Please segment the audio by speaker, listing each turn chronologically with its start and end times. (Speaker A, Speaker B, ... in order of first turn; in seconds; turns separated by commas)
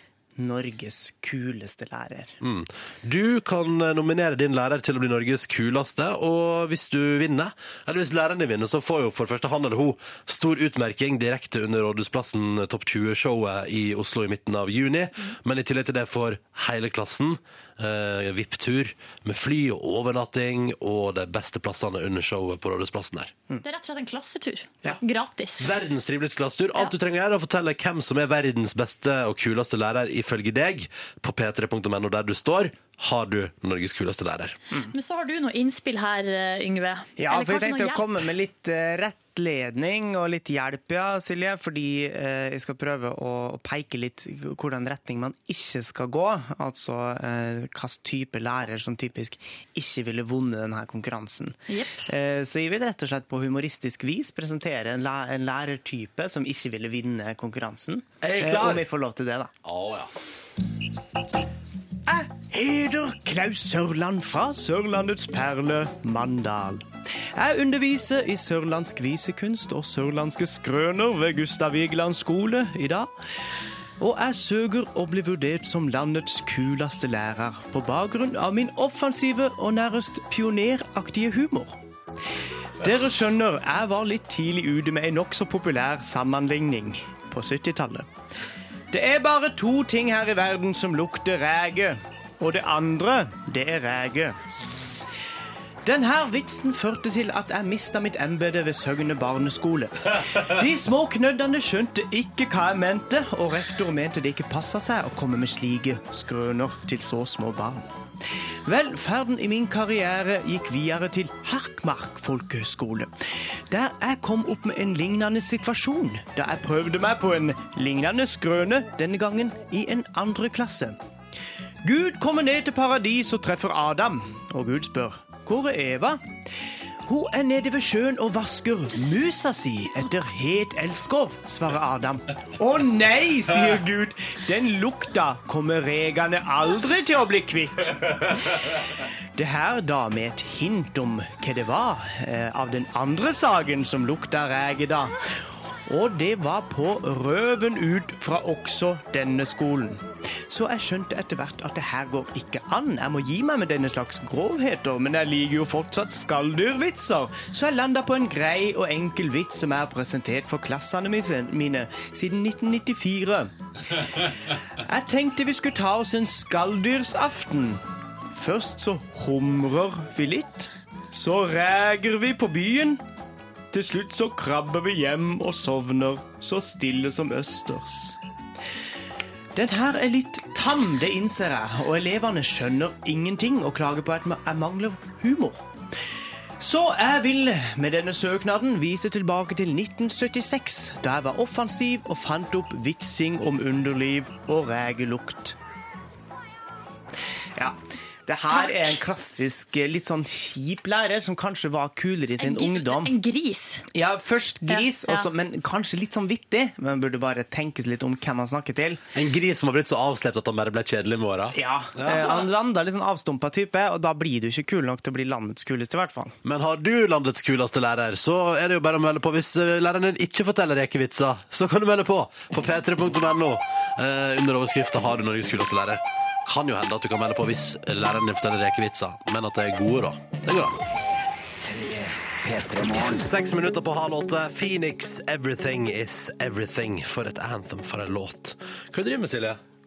Speaker A: 0.4-2.4, Speaker B: 2.4-23.3, Speaker C: 23.6-25.6, Speaker B: 25.6-34.6, Speaker C: 34.9-38.1, Speaker A: 37.2-59.5, Speaker C: 51.7-52.0, Speaker B: 58.2-58.9, Speaker B: 59.6-60.1, Speaker A: 62.1-73.1, Speaker A: 74.0-81.8, Speaker A: 82.8-88.1, Speaker A: 88.9-94.4, Speaker A: 95.8-107.9, Speaker A: 108.6-113.1, Speaker A: 113.7-121.0, Speaker A: 121.8-126.2, Speaker A: 127.0-138.7, Speaker A: 139.3-145.2, Speaker A: 145.8-173.0, Speaker A: 173.7-178.2, Speaker A: 179.5-185.7, Speaker A: 186.6-195.6, Speaker A: 197.5-203.1, Speaker C: 202.4-203.8, Speaker A: 203.9-209.0, Speaker C: 204.7-205.3, Speaker B: 209.1-212.4, Speaker A: 211.5-216.3, Speaker B: 216.4-230.8, Speaker B: 232.5-239.6